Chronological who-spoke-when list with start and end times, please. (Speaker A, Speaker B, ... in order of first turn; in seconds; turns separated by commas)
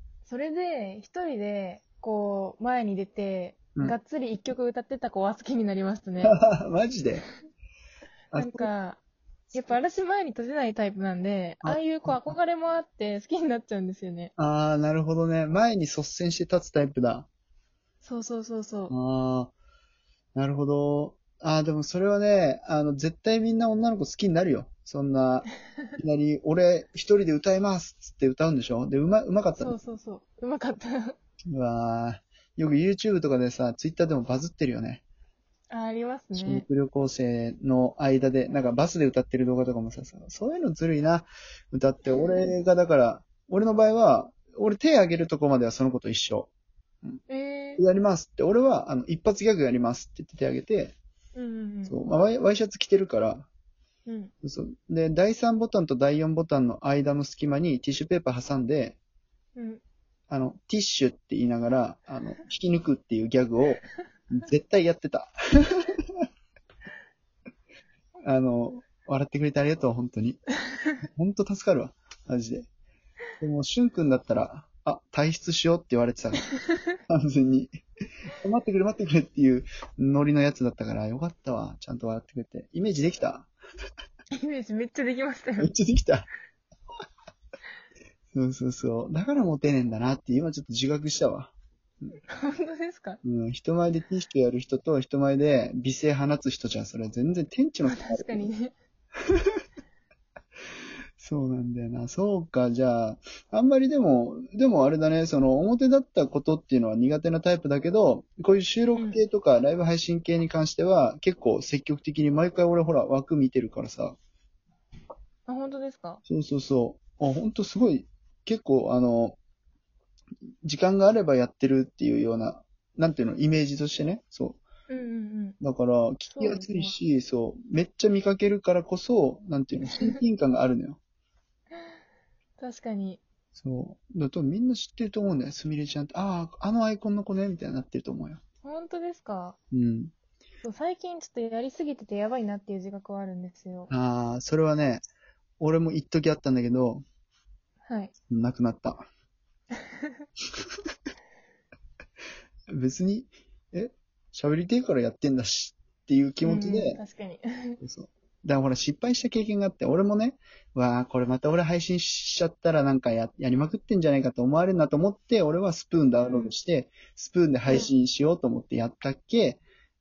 Speaker A: 0.3-6.4, Speaker B: 6.2-7.2, Speaker B: 8.3-8.7, Speaker A: 8.3-9.0, Speaker A: 9.5-14.3, Speaker B: 11.6-12.4, Speaker B: 14.4-17.3, Speaker A: 18.0-18.9, Speaker B: 18.9-19.5, Speaker B: 20.4-29.8, Speaker A: 29.6-31.2, Speaker B: 31.5-35.0, Speaker A: 35.7-36.7, Speaker B: 36.4-46.5, Speaker A: 42.1-42.5, Speaker A: 47.3-47.8, Speaker B: 47.8-51.0, Speaker A: 51.4-52.0, Speaker B: 51.9-53.5, Speaker A: 54.1-54.3, Speaker B: 54.4-59.0, Speaker A: 59.6-59.8, Speaker B: 60.3-66.1, Speaker B: 68.3-70.4, Speaker B: 71.0-72.7, Speaker B: 73.4-76.5, Speaker A: 76.5-76.8, Speaker B: 77.1-77.8, Speaker B: 78.3-83.5, Speaker A: 84.3-85.7, Speaker B: 85.6-86.3, Speaker B: 88.3-91.5, Speaker A: 92.3-93.2, Speaker B: 93.2-98.5, Speaker A: 97.8-98.7, Speaker B: 101.2-114.2, Speaker A: 108.9-109.2, Speaker A: 115.5-116.2, Speaker B: 116.3-119.4, Speaker B: 120.6-124.6, Speaker A: 124.9-125.6, Speaker B: 125.6-131.0, Speaker A: 126.3-127.0, Speaker A: 132.6-133.2, Speaker B: 133.6-138.4, Speaker A: 138.6-139.6, Speaker B: 139.7-140.1, Speaker A: 140.6-143.9, Speaker B: 143.9-145.0, Speaker B: 145.6-147.0, Speaker A: 147.8-148.1, Speaker B: 148.3-149.0, Speaker B: 152.7-157.0, Speaker A: 156.4-157.8, Speaker B: 157.8-169.6, Speaker A: 166.2-166.5